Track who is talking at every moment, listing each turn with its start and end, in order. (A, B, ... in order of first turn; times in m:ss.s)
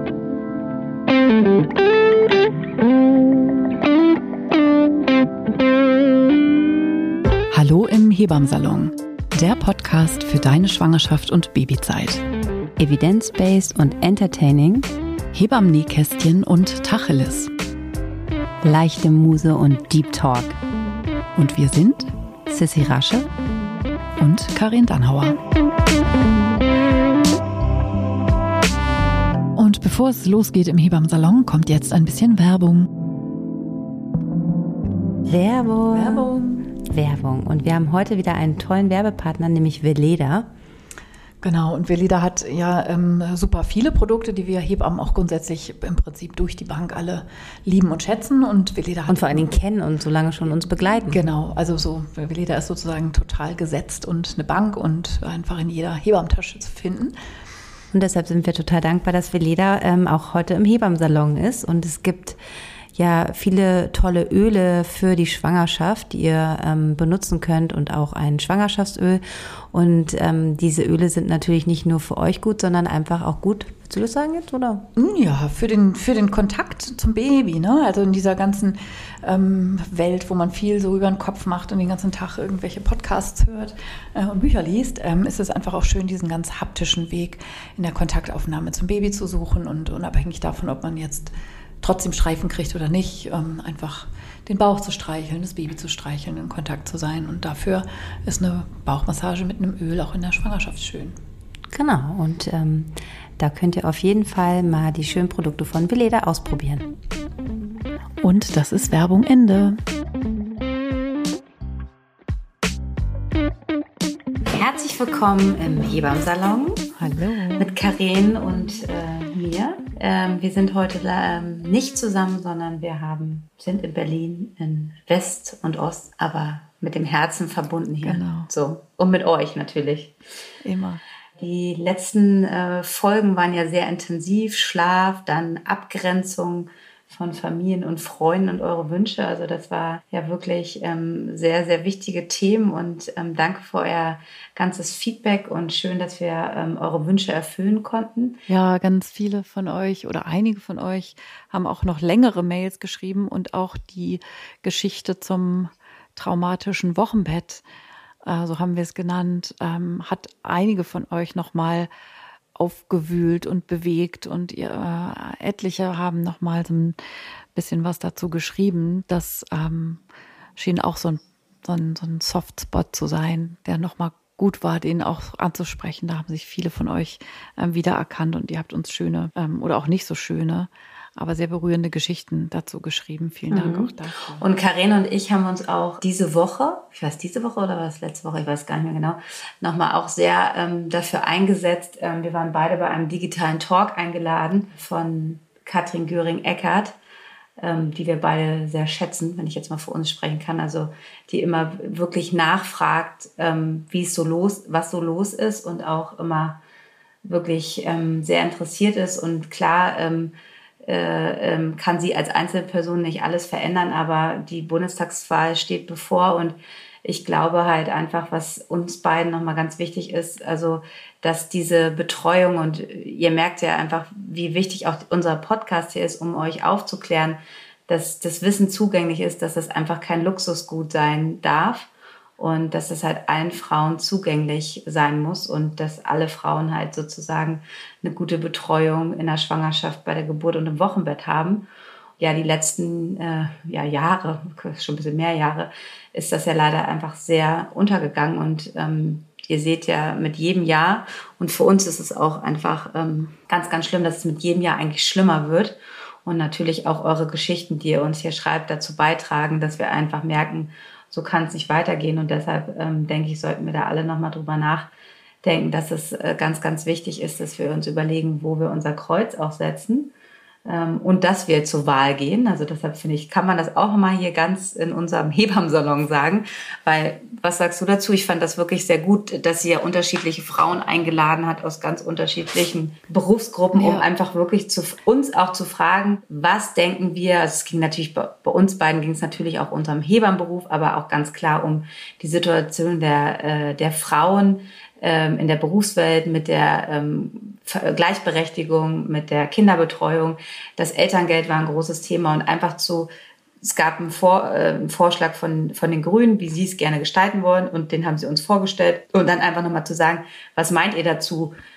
0:07.5-0:12.2 A
0:12.8-0:14.9 B
0:15.3-0:17.5 A
0:18.6-0:20.6 B
0:21.4-0:22.1 A
0:22.5-0:23.3 B
0:24.2-0:25.4 A
0:29.6-0:32.9 A
0:35.3-0:40.5 B
0:35.9-0:36.7 A
0:41.4-0:49.5 A
0:49.1-0:51.2 B
0:51.1-0:57.2 A
0:57.9-1:02.4 B
1:03.0-1:14.9 B
1:15.0-1:41.2 A
1:41.7-1:46.9 B
1:48.2-1:49.8 A
1:54.5-1:56.9 B
1:57.0-1:57.7 A
1:57.6-2:10.2 B
2:08.0-2:08.5 A
2:10.6-2:11.0 A
2:11.4-2:28.4 B
2:28.5-2:37.6 A
2:38.2-2:41.9 A
2:42.6-2:47.0 A
2:47.6-2:50.0 A
2:50.6-3:04.4 A
3:03.5-3:17.0 B
3:17.6-3:26.6 B
3:27.2-4:01.7 B
4:02.2-4:24.9 B
4:25.4-4:30.1 B
4:30.6-5:03.1 B
4:43.7-4:44.1 A
5:03.6-5:11.6 B